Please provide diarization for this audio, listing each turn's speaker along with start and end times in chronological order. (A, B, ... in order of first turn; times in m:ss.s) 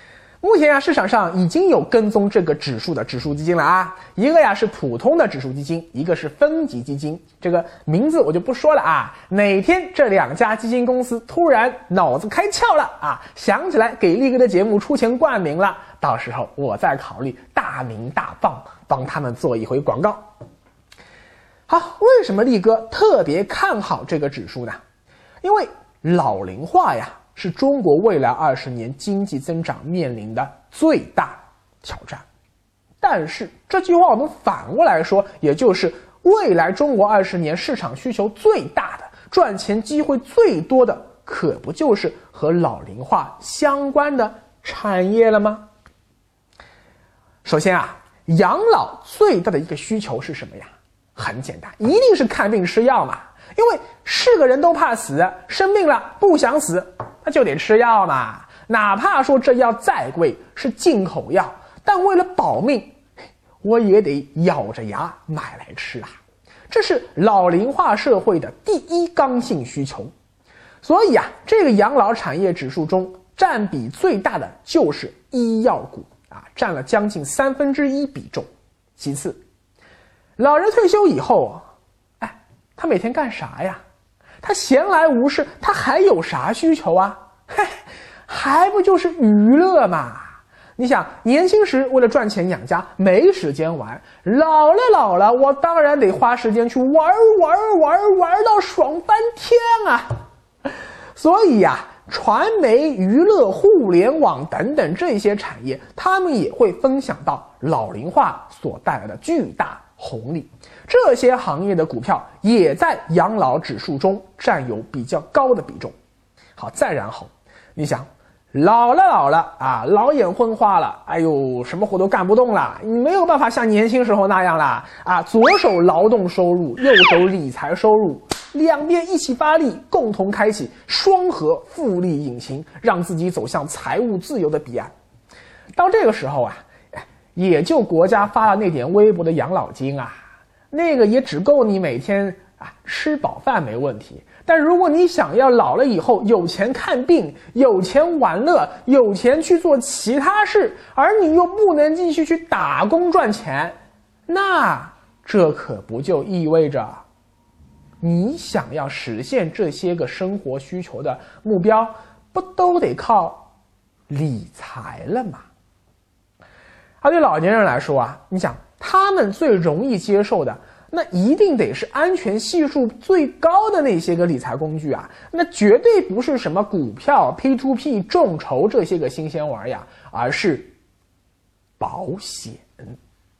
0:00.4-0:20.3 A
0:21.7-0:24.8 A
0:25.4-0:32.2 A
0:33.0-0:45.7 A
0:47.4-1:03.0 A
1:03.6-1:06.2 A
1:06.7-1:10.1 A
1:10.8-1:19.4 A
1:20.4-1:21.6 A
1:22.2-1:23.8 A
1:24.4-1:40.2 A
1:41.2-1:55.9 A
1:56.6-2:14.9 A
2:15.8-2:33.8 A
2:34.3-2:37.0 A
2:38.0-2:43.5 A
2:44.1-2:45.5 A
2:47.0-3:00.7 A
3:01.8-3:03.0 A